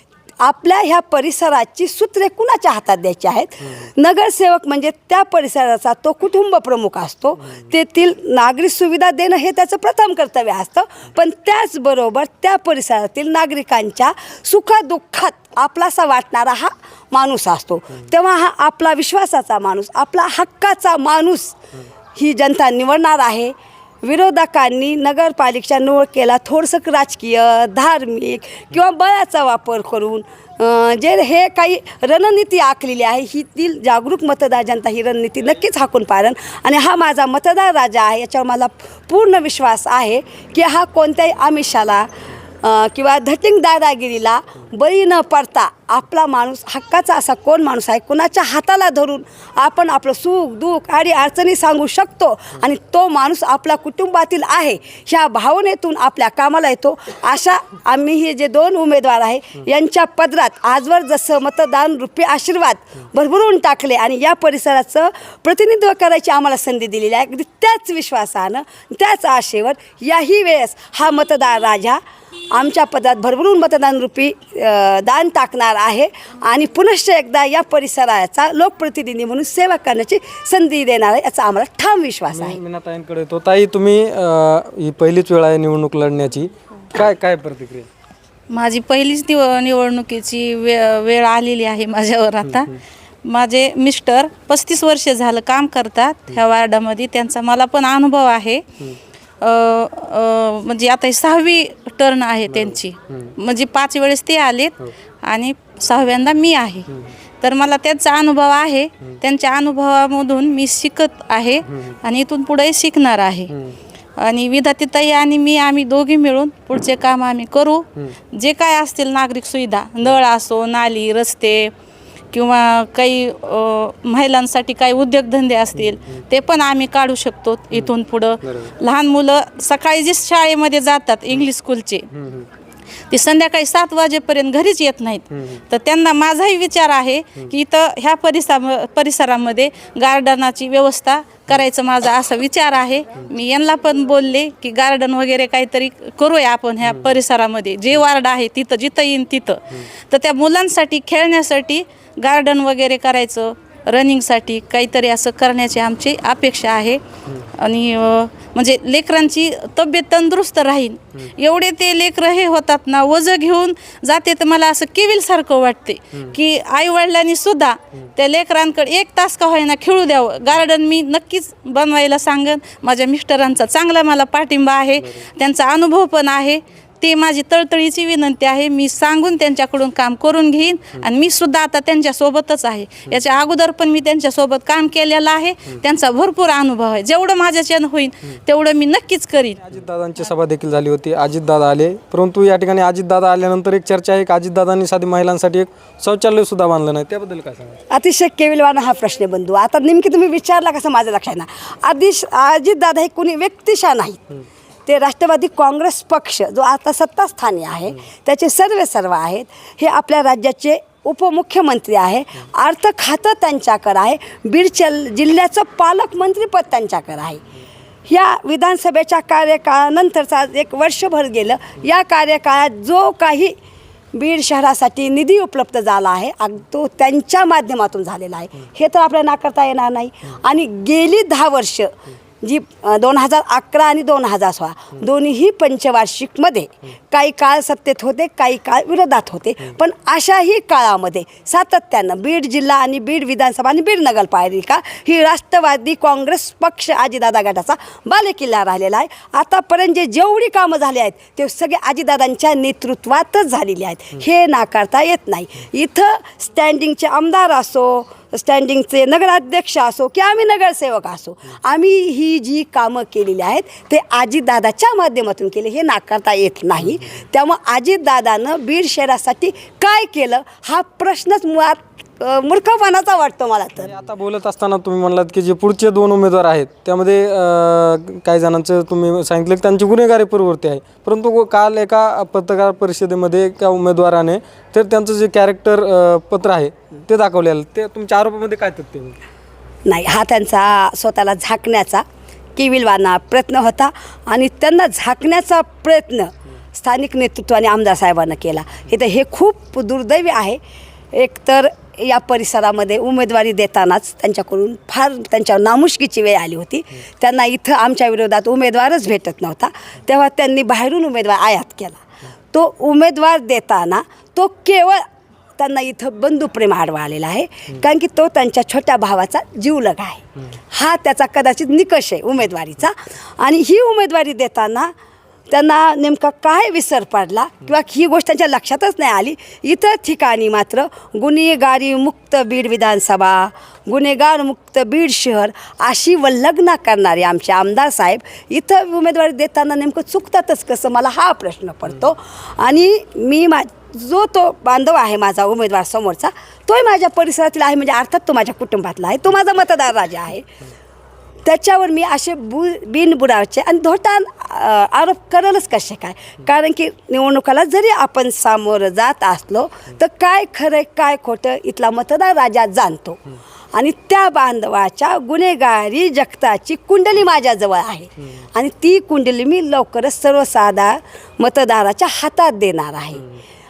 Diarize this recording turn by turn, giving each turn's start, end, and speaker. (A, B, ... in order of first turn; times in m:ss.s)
0:00.4-0:21.6 A
0:22.2-0:42.1 A
0:42.6-1:12.0 A
1:12.5-1:22.6 A
1:22.3-1:27.9 B
1:28.5-1:32.7 C
1:32.4-1:32.8 B
1:33.2-1:38.6 C
1:39.4-1:46.9 C
1:42.5-1:43.3 B
1:47.4-1:53.5 C
1:51.7-1:52.0 B
1:53.5-1:53.8 B
1:54.2-2:01.7 C
2:02.3-2:12.1 C
2:08.4-2:08.7 B
2:12.1-2:12.5 B
2:13.1-2:37.0 C
2:15.3-2:15.6 B
2:37.6-3:09.6 C
3:09.6-3:17.8 B
3:17.9-3:24.2 A
3:24.8-3:37.4 A
3:38.1-3:43.5 A
3:44.1-4:33.9 A
4:33.8-4:49.2 B
4:49.8-4:52.0 A
4:52.6-5:00.6 A
5:01.1-5:15.0 A
5:15.6-5:24.9 A
5:25.5-5:50.5 A
5:51.4-6:03.2 A
6:03.7-6:13.2 A